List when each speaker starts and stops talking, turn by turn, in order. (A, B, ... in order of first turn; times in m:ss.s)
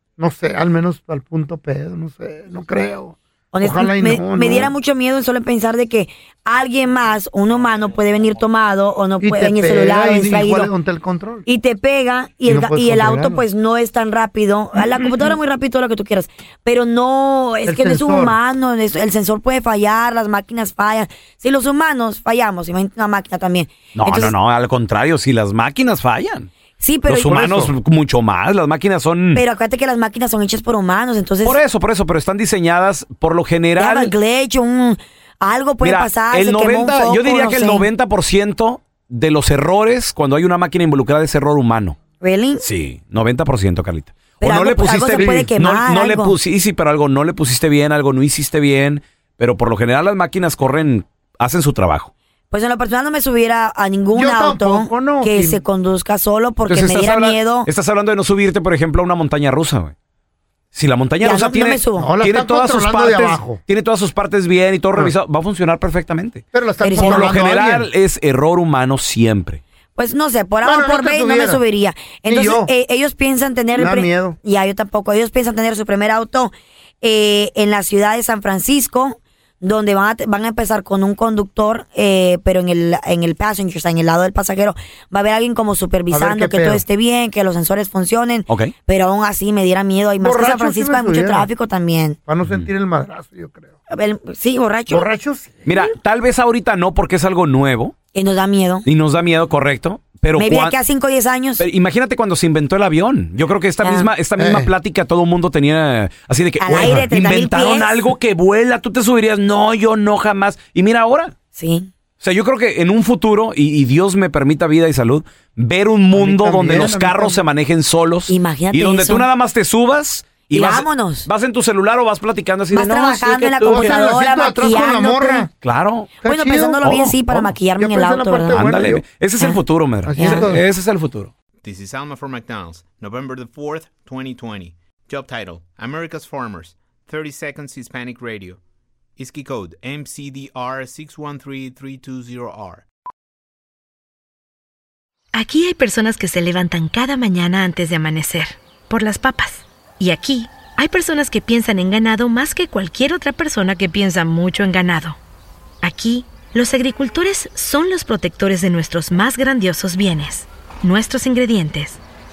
0:00.2-0:04.7 A
0:03.5-0:10.7 B
0:09.2-0:11.4 A
0:11.5-0:24.3 B
0:12.5-0:13.4 A
0:17.7-0:18.4 A
0:24.0-0:26.5 C
0:26.8-0:27.5 B
0:27.1-0:29.4 C
0:27.3-0:27.7 A
0:29.4-0:31.6 B
0:31.4-0:34.1 C
0:33.8-0:37.9 B
0:35.8-0:42.0 C
0:42.2-0:42.7 B
0:42.6-0:52.1 C
0:44.4-0:46.4 B
0:45.1-0:45.5 A
0:52.5-0:57.7 B
0:54.1-0:55.6 A
0:56.7-0:59.9 C
1:00.7-1:06.4 C
1:01.2-1:02.1 B
1:02.0-1:03.6 A
1:06.5-1:07.9 A
1:06.8-1:07.3 B
1:07.0-1:09.6 C
1:10.0-1:32.2 B
1:10.6-1:11.6 A
1:12.3-1:12.7 A
1:13.7-1:14.4 A
1:26.1-1:26.8 A
1:28.5-1:28.7 C
1:30.2-1:31.5 A
1:32.3-1:33.8 A
1:33.9-1:35.1 B
1:34.9-1:35.6 A
1:35.7-1:37.9 C
1:38.1-1:38.9 B
1:38.9-1:40.8 C
1:40.4-1:41.6 B
1:41.6-1:51.3 C
1:43.8-1:44.1 B
1:44.4-1:44.7 A
1:46.6-1:48.0 B
1:46.7-1:47.0 A
1:51.6-1:51.9 B
1:52.2-2:04.0 C
1:56.1-1:57.4 A
1:58.3-1:59.3 B
2:00.5-2:01.3 B
2:02.7-2:05.5 B
2:03.6-2:05.5 A
2:05.6-2:06.1 C
2:06.2-2:09.0 A
2:06.2-2:08.7 B
2:06.8-2:07.1 C
2:08.5-2:11.3 C
2:10.1-2:10.6 A
2:10.2-2:10.5 B
2:11.6-2:18.6 D
2:19.2-2:22.8 D
2:25.3-2:35.2 E
2:35.8-2:42.0 E